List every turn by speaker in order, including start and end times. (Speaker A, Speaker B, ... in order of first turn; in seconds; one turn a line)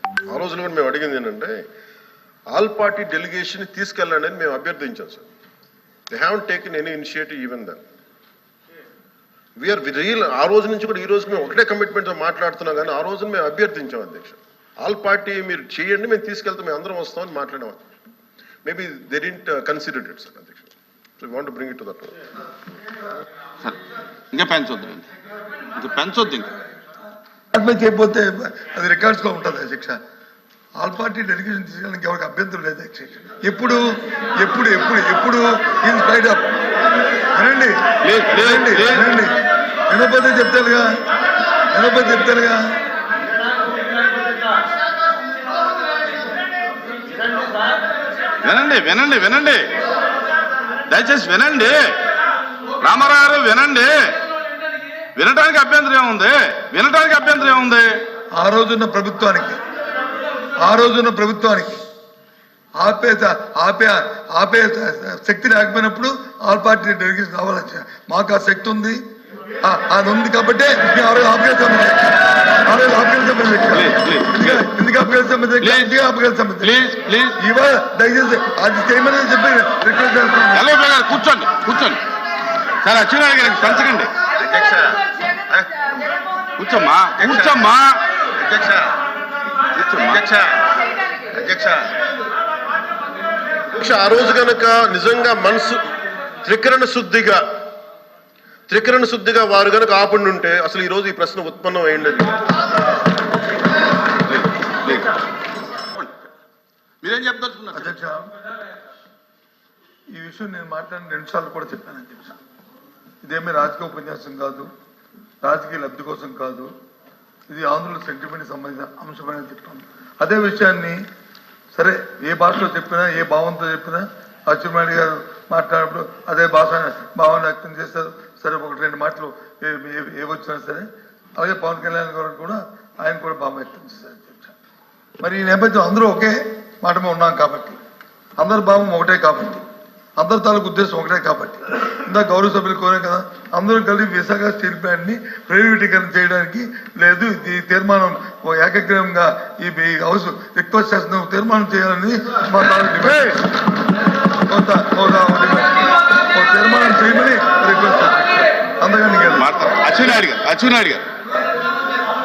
Speaker A: 0.3-1.5
Speaker A: 2.5-5.3
Speaker A: 6.1-7.8
Speaker A: 9.6-17.8
Speaker A: 18.6-22.1
Speaker B: 24.3-25.1
Speaker B: 25.8-26.5
Speaker C: 27.5-30.0
Speaker C: 30.8-33.8
Speaker C: 34.4-36.5
Speaker C: 37.3-37.7
Speaker B: 38.0-39.1
Speaker C: 38.3-40.9
Speaker C: 41.7-42.6
Speaker B: 48.4-49.7
Speaker B: 50.9-52.0
Speaker B: 52.8-54.1
Speaker B: 55.1-58.0
Speaker C: 58.4-59.6
Speaker C: 60.6-61.8
Speaker C: 62.8-69.0
Speaker C: 69.6-76.8
Speaker B: 73.7-74.6
Speaker B: 75.6-75.9
Speaker B: 76.6-77.3
Speaker C: 77.4-80.7
Speaker B: 80.5-82.0
Speaker B: 82.8-84.1
Speaker D: 84.3-85.9
Speaker B: 86.6-88.0
Speaker D: 87.1-87.7
Speaker D: 88.4-88.9
Speaker B: 89.8-90.2
Speaker D: 90.0-90.6
Speaker D: 91.2-91.9
Speaker A: 93.7-95.8
Speaker A: 96.4-97.4
Speaker A: 98.7-102.4
Speaker B: 104.3-105.1
Speaker B: 105.9-106.3
Speaker B: 107.0-107.9
Speaker C: 107.7-108.3
Speaker C: 110.1-112.3
Speaker C: 113.2-114.7
Speaker C: 115.4-116.7
Speaker C: 117.5-121.0
Speaker C: 121.7-130.8
Speaker C: 131.4-134.5
Speaker C: 135.2-137.8
Speaker C: 138.4-139.6
Speaker C: 140.2-153.5
Speaker C: 154.5-159.5
Speaker B: 159.3-161.1